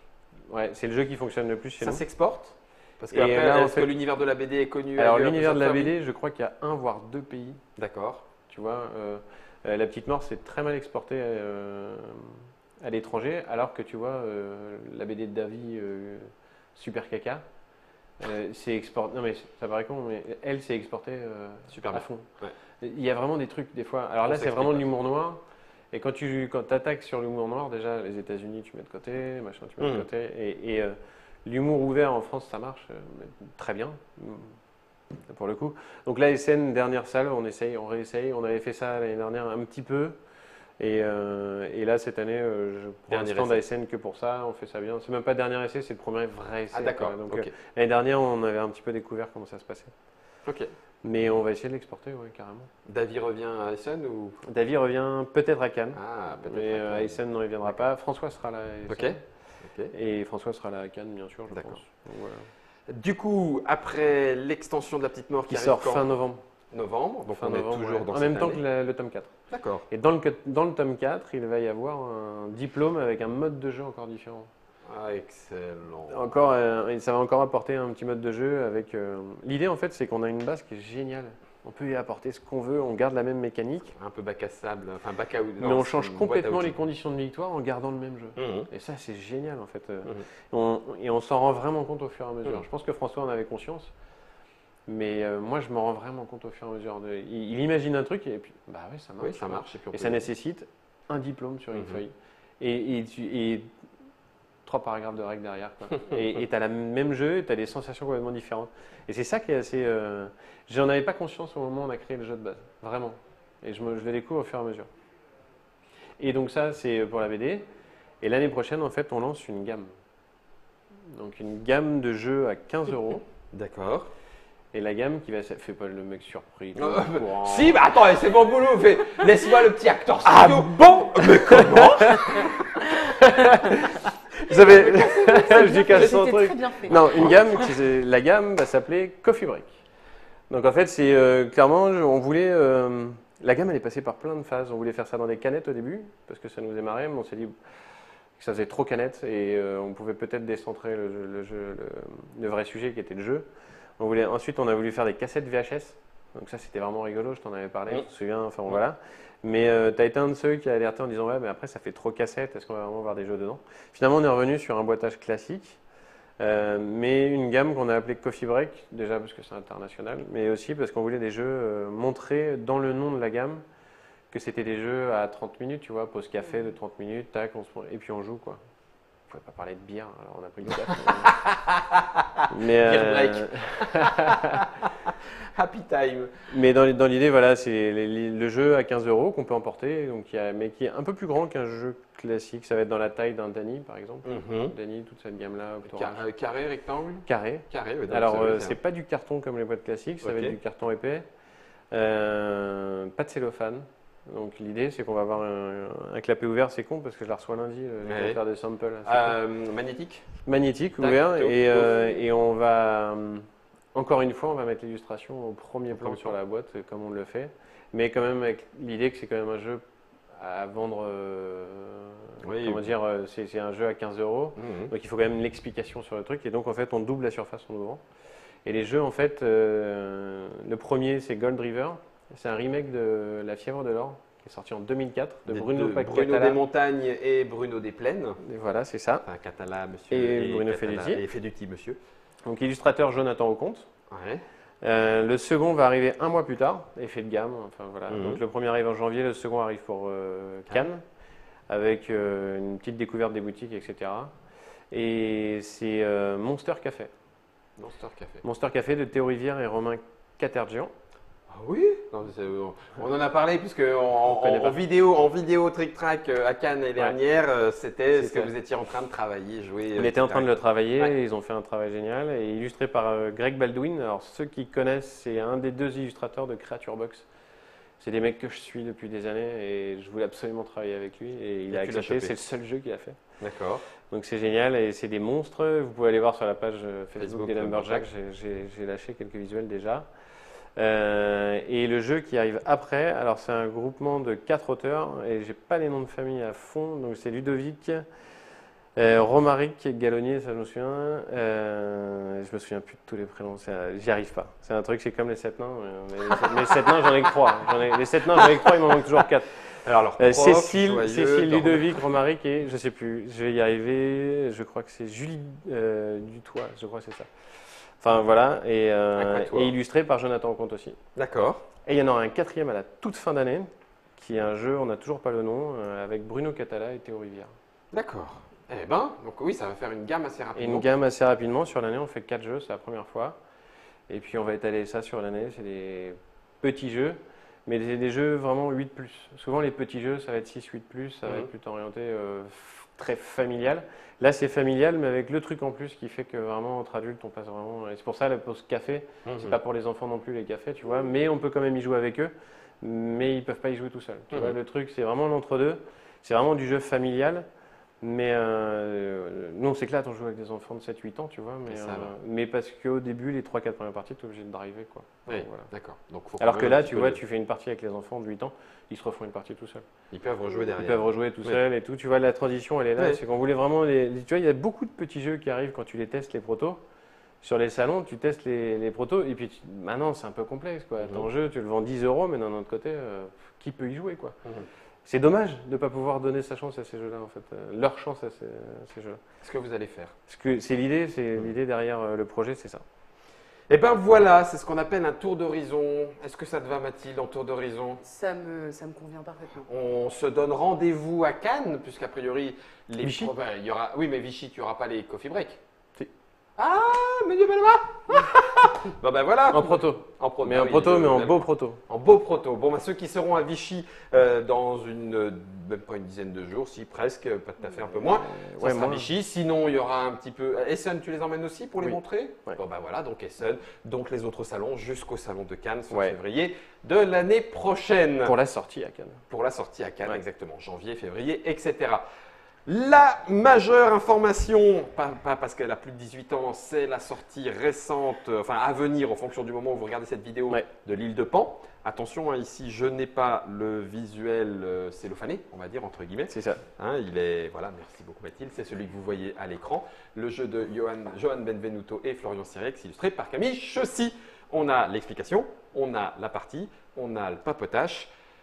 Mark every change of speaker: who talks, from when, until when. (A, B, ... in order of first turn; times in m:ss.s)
0:00.5-0:02.0 A
0:01.8-0:05.9 B
0:03.1-0:03.9 A
0:05.0-0:07.6 A
0:07.8-0:08.2 B
0:08.5-0:17.4 A
0:18.2-0:22.3 A
0:21.7-0:22.5 B
0:22.8-0:25.4 A
0:24.2-0:24.9 B
0:25.9-0:34.6 A
0:29.8-0:30.1 B
0:35.2-0:40.2 A
0:40.8-0:49.9 A
0:43.1-0:43.6 B
0:46.7-0:47.5 B
0:50.4-0:50.7 B
0:51.0-0:52.7 A
0:52.8-0:54.4 B
0:54.4-0:59.2 A
0:55.9-0:57.2 B
0:58.9-0:59.9 B
0:59.9-1:02.5 A
1:01.5-1:01.8 B
1:02.9-1:06.2 B
1:05.5-1:06.4 A
1:06.7-1:08.6 B
1:07.3-1:09.3 A
1:09.5-1:09.8 B
1:09.9-1:14.5 A
1:14.9-1:16.5 B
1:16.1-1:23.9 A
1:23.9-1:26.8 B
1:25.6-1:33.9 A
1:28.4-1:28.7 B
1:34.9-1:43.7 A
1:39.2-1:40.2 B
1:41.7-1:42.0 B
1:44.6-1:54.9 A
1:56.2-1:57.7 A
1:58.2-1:59.9 A
2:01.1-2:03.2 A
2:03.5-2:04.1 B
2:04.7-2:07.8 A
2:06.8-2:12.8 B
2:10.2-2:19.8 A
2:14.5-2:16.2 B
2:15.0-2:17.6 C
2:17.0-2:17.4 B
2:20.5-2:27.5 A
2:28.4-2:33.5 A
2:34.0-2:45.8 A
2:46.4-2:53.6 A
2:54.3-2:58.6 A
2:59.3-3:01.4 A
3:00.9-3:06.3 B
3:02.5-3:04.7 A
3:06.5-3:16.2 A
3:14.2-3:14.7 B
3:15.8-3:18.8 B
3:17.2-3:21.2 A
3:20.2-3:20.6 B
3:21.9-3:29.4 A
3:28.0-3:28.4 B
3:29.0-3:30.3 B
3:30.4-3:39.8 A
3:31.0-3:32.2 B
3:36.0-3:36.3 B
3:40.3-3:48.0 A
3:42.4-3:42.9 B
3:44.6-3:44.9 B
3:48.6-3:56.6 A
3:55.5-3:58.4 B
3:58.4-3:59.2 A
3:59.2-4:02.0 B
4:00.1-4:01.2 A
4:02.5-4:03.9 A
4:04.1-4:04.4 B
4:04.8-4:11.0 A
4:08.1-4:08.4 B
4:11.7-4:14.3 A
4:14.9-4:17.1 A
4:17.8-4:18.4 B
4:18.4-4:20.9 A
4:21.5-4:31.1 B
4:24.2-4:24.8 A
4:28.1-4:28.5 A
4:30.0-4:37.3 A
4:38.0-4:43.2 A
4:41.7-4:42.4 B
4:43.4-4:43.8 B
4:44.1-4:50.0 A
4:47.2-4:48.1 B
4:50.8-4:58.0 A
4:59.0-5:17.3 A
5:09.8-5:12.0 B
5:18.0-5:21.0 A
5:19.2-5:19.7 B
5:21.1-5:21.6 B
5:21.8-5:27.5 A
5:27.9-5:30.9 B
5:30.5-5:33.4 A
5:34.1-5:57.5 A
5:49.2-5:49.6 B
5:58.0-6:05.7 A
6:01.7-6:02.1 B
6:05.3-6:07.2 B
6:06.4-6:09.8 A
6:10.1-6:11.6 B
6:10.8-6:16.8 A
6:17.4-6:24.4 A
6:21.0-6:21.3 B
6:25.0-6:29.2 A
6:29.4-6:30.1 B
6:30.3-6:32.8 A
6:33.7-6:38.0 B
6:38.0-6:39.7 C
6:39.6-6:45.6 B
6:43.0-6:43.3 A
6:46.6-7:08.3 B
6:49.5-6:51.8 A
6:58.0-6:59.1 A
7:01.8-7:02.6 A
7:05.9-7:06.2 A
7:08.2-7:09.2 A
7:09.3-7:12.0 B
7:12.6-7:38.1 B
7:26.3-7:26.6 A